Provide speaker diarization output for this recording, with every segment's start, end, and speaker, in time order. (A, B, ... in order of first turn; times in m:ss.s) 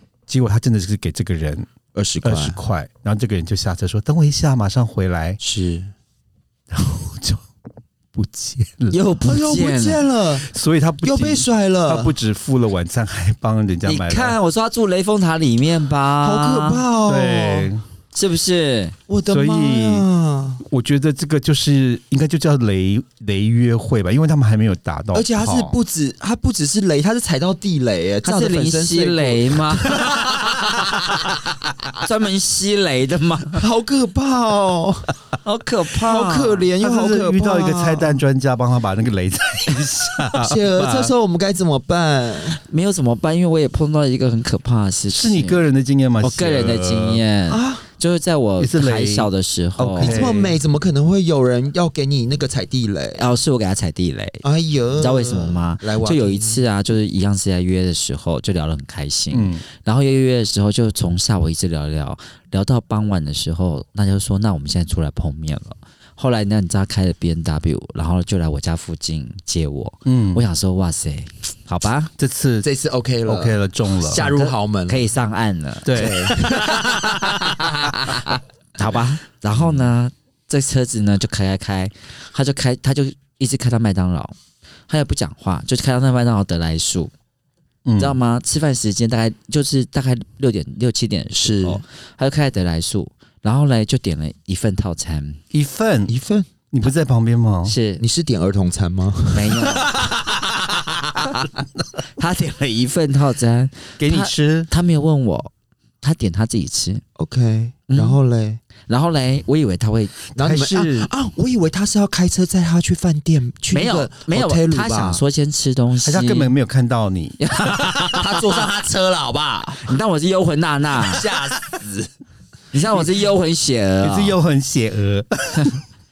0:00.3-0:01.7 A
0:02.0-0:02.6 B
0:02.2-0:05.4 A
0:05.4-0:05.9 B
0:06.7-0:07.4 A
0:08.1-0:09.0 A
0:08.9-0:10.0 C
0:09.2-0:10.5 B
0:10.5-0:14.4 A
0:11.0-0:12.1 B
0:13.8-0:16.8 C
0:16.2-0:17.7 B
0:17.1-0:17.8 A
0:18.1-0:19.0 C
0:19.1-0:20.6 B
0:19.3-0:20.1 A
0:20.6-0:25.8 A
0:25.1-0:31.3 B
0:28.2-0:30.1 C
0:32.0-0:33.6 C
0:33.6-0:35.1 B
0:35.4-0:36.6 C
0:36.0-0:38.2 B
0:36.8-0:41.1 A
0:40.4-0:42.6 B
0:42.5-0:45.6 C
0:45.1-0:47.2 A
0:46.2-0:50.3 C
0:47.5-0:47.8 B
0:48.6-0:49.3 A
0:49.8-0:53.2 B
0:50.0-0:50.6 A
0:53.2-0:54.4 C
0:54.4-0:56.6 B
0:55.0-1:12.1 C
0:59.3-0:59.6 A
1:10.1-1:10.4 A
1:12.2-1:12.7 A
1:12.6-1:15.0 B
1:13.3-1:14.3 A
1:14.2-1:16.4 C
1:15.8-1:17.6 A
1:15.9-1:18.4 B
1:18.8-1:24.4 C
1:24.9-1:27.1 C
1:27.8-1:28.2 A
1:28.0-1:35.4 C
1:31.4-1:31.8 B
1:35.5-1:36.1 A
1:36.1-1:36.5 B
1:36.7-1:37.8 A
1:37.6-1:38.0 C
1:38.0-1:40.6 B
1:39.3-1:39.9 C
1:42.2-1:47.0 C
1:44.0-1:44.7 A
1:47.2-1:48.6 B
1:47.9-1:48.2 C
1:48.9-1:50.1 C
1:50.4-1:51.1 A
1:50.4-1:55.2 B
1:53.7-1:56.5 C
1:56.0-1:57.4 A
1:57.4-1:58.6 C
1:58.0-1:59.9 B
1:59.8-2:01.3 C
2:01.0-2:02.1 B
2:02.7-2:04.4 C
2:04.0-2:05.8 A